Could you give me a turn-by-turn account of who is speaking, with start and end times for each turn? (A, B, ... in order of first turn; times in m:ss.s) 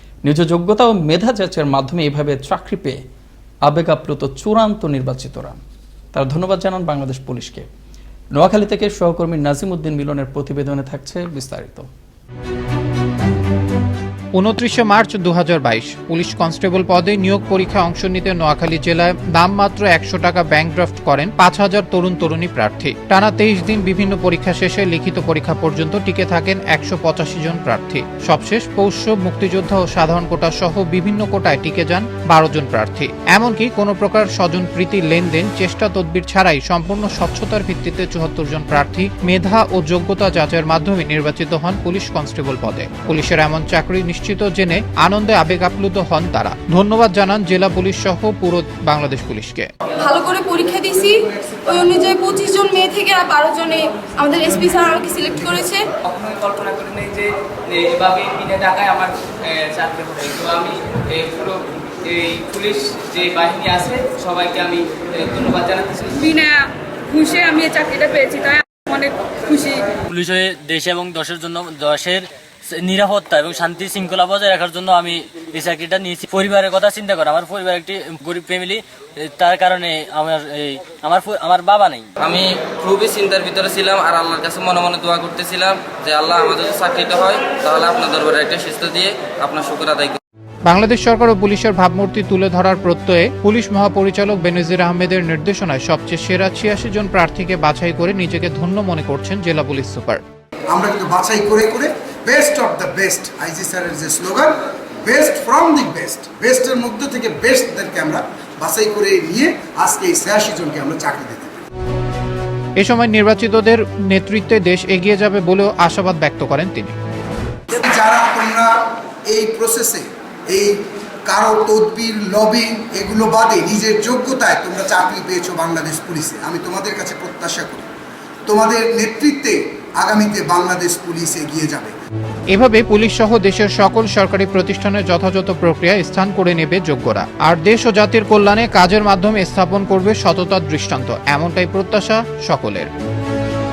0:00.2-0:03.0 A
0:03.6-0:05.6 A
0:06.1-0:07.7 A
0:08.3-0:11.9 A
0:14.3-0:49.7 B
0:50.0-0:55.8 C
0:56.1-1:06.2 D
1:06.2-1:10.0 C
1:10.1-1:22.1 E
1:22.2-1:30.2 F
1:30.7-1:40.2 B
1:40.7-1:51.6 G
1:52.8-1:57.0 B
1:57.7-2:07.9 G
2:08.5-2:11.9 G
2:12.5-2:22.9 B